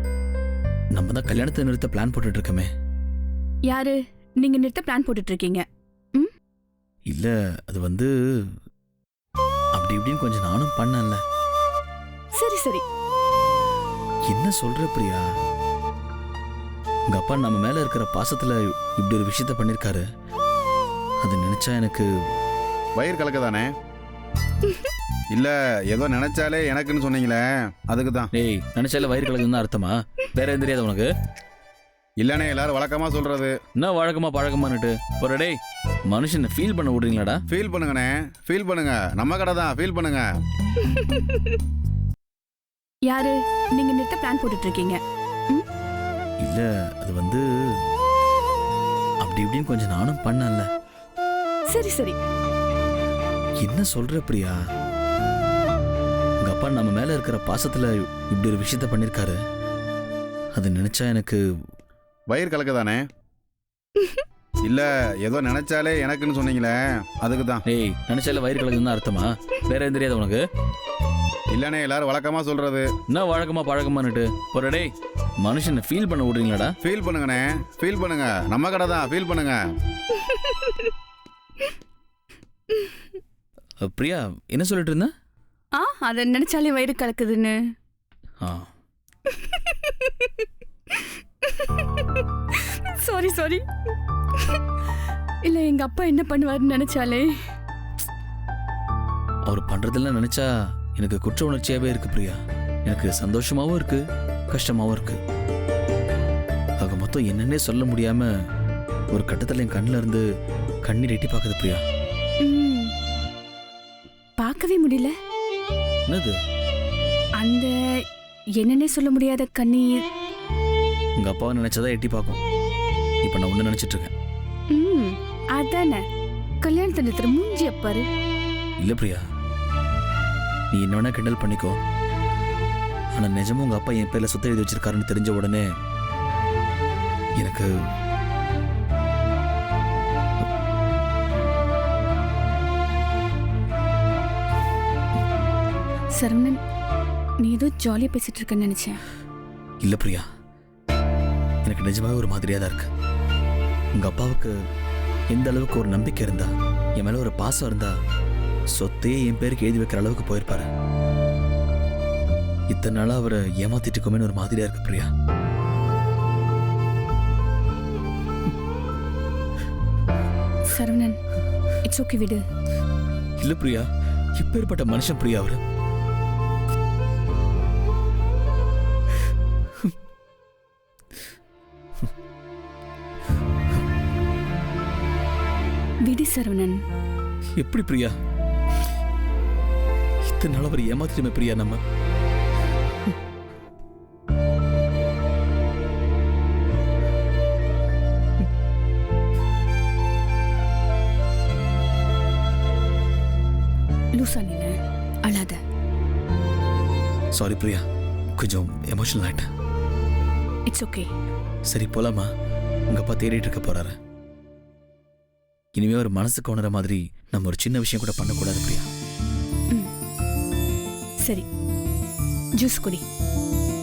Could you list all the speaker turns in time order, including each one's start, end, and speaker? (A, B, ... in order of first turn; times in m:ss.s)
0:01.0-0:02.7 A
0:03.7-0:06.3 B
0:07.1-0:08.5 A
0:09.8-0:11.2 A
0:12.4-0:12.8 B
0:14.3-0:15.2 A
0:17.1-0:20.1 A
0:21.2-0:22.1 A
0:23.0-0:23.7 C
0:25.3-0:28.3 C
0:28.4-0:31.1 A
0:32.2-0:33.6 C
0:33.8-0:35.6 A
0:36.1-0:37.4 A
0:37.5-0:40.3 C
0:40.8-0:41.6 B
0:43.1-0:45.0 B
0:46.4-0:47.8 A
0:49.2-0:50.7 A
0:51.7-0:52.2 B
0:53.6-0:54.6 A
0:56.4-0:59.4 A
1:00.6-1:01.4 A
1:02.3-1:03.0 C
1:04.7-1:07.6 C
1:07.7-1:10.4 A
1:11.5-1:12.9 C
1:13.1-1:16.7 A
1:16.8-1:19.6 C
1:20.2-1:20.9 B
1:22.7-1:23.0 B
1:23.8-1:25.1 A
1:25.7-1:27.6 B
1:28.4-1:28.7 A
1:29.3-1:33.6 B
1:35.5-1:37.3 B
1:39.5-1:45.2 A
1:46.8-1:48.3 A
1:49.1-1:50.2 A
1:50.8-1:51.8 A
1:52.4-1:52.9 B
1:54.4-1:55.1 B
1:56.1-1:56.4 A
1:57.4-1:57.7 B
1:58.6-2:00.0 B
2:01.2-2:02.4 A
2:03.2-2:04.1 A
2:04.7-2:06.0 B
2:06.6-2:08.0 B
2:08.8-2:09.2 A
2:10.7-2:11.8 A
2:13.2-2:15.7 A
2:17.4-2:17.7 A
2:26.2-2:26.6 B
2:27.4-2:29.0 B
2:29.8-2:30.3 A
2:31.6-2:32.9 A
2:34.0-2:34.5 A
2:35.3-2:37.9 A
2:38.7-2:40.7 A
2:42.7-2:45.1 A
2:50.7-2:51.2 B
2:51.8-2:52.4 B
2:53.4-2:55.6 A
3:06.1-3:06.8 B
3:07.6-3:08.2 A
3:10.2-3:11.8 A
3:24.2-3:24.8 B
3:25.3-3:25.6 B
3:27.4-3:27.8 A
3:28.4-3:29.5 A
3:30.7-3:31.1 B
3:31.7-3:32.3 A
3:32.9-3:34.0 A
3:35.8-3:38.9 A
3:42.6-3:43.0 B